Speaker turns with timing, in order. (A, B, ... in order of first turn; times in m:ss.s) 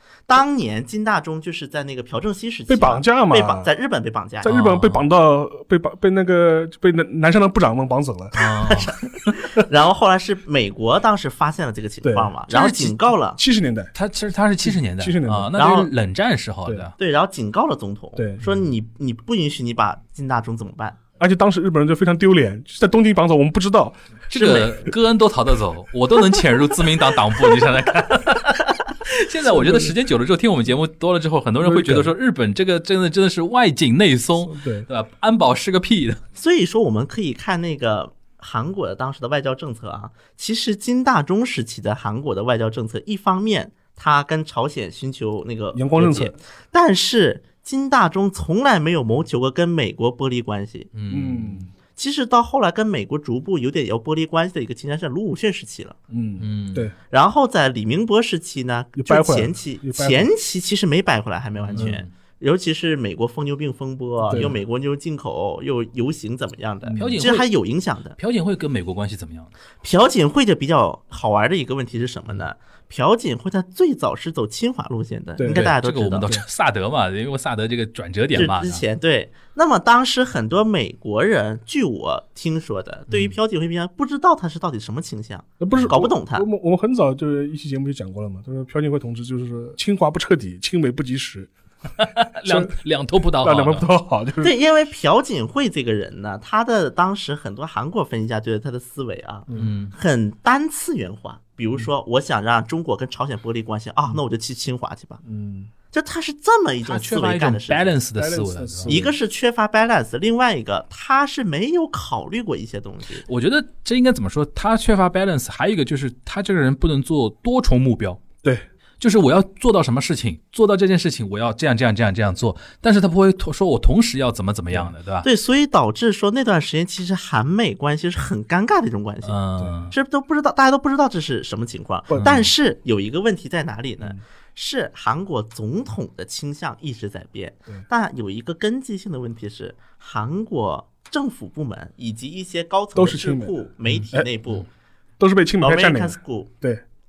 0:00.3-0:04.5 A
0:02.7-0:03.7 B
0:04.4-0:08.7 B
0:04.4-0:05.0 C
0:08.3-0:08.9 C
0:08.6-0:13.4 A
0:12.0-0:12.3 B
0:12.5-0:13.0 C
0:13.4-0:13.9 B
0:13.9-0:16.9 C
0:14.6-0:15.5 B
0:15.6-0:15.9 A
0:17.0-0:21.0 A
0:18.2-0:18.5 B
0:21.2-0:24.0 B
0:24.3-0:36.2 C
0:24.3-0:24.9 A
0:29.5-0:29.9 B
0:31.6-0:32.1 B
0:34.5-0:34.9 B
0:36.3-0:50.9 A
0:45.7-0:46.4 B
0:50.9-0:51.6 C
0:51.1-0:51.7 B
0:51.9-0:56.0 A
0:56.1-0:56.9 B
0:56.4-0:56.9 C
0:57.1-1:08.2 A
0:58.9-1:00.3 B
1:01.6-1:02.1 C
1:04.2-1:04.6 B
1:04.3-1:04.5 C
1:06.8-1:07.2 B
1:07.0-1:07.5 C
1:08.2-1:09.5 C
1:09.8-1:16.3 A
1:15.4-1:15.7 B
1:15.5-1:18.8 C
1:18.3-1:26.5 A
1:25.6-1:31.5 B
1:32.0-1:33.9 C
1:32.4-1:32.7 B
1:33.4-1:34.5 B
1:34.4-1:45.2 A
1:39.6-1:39.9 C
1:45.2-1:45.7 B
1:45.9-1:48.0 A
1:46.8-1:49.0 C
1:48.2-1:49.1 B
1:48.9-1:53.2 A
1:53.2-1:58.2 C
1:59.0-2:05.3 C
2:05.2-2:09.4 A
2:09.2-2:09.9 C
2:09.6-2:09.9 B
2:09.9-2:24.6 A
2:12.1-2:12.4 B
2:12.2-2:12.5 C
2:22.9-2:24.3 B
2:23.8-2:24.6 C
2:25.2-2:26.8 B
2:25.6-2:26.5 A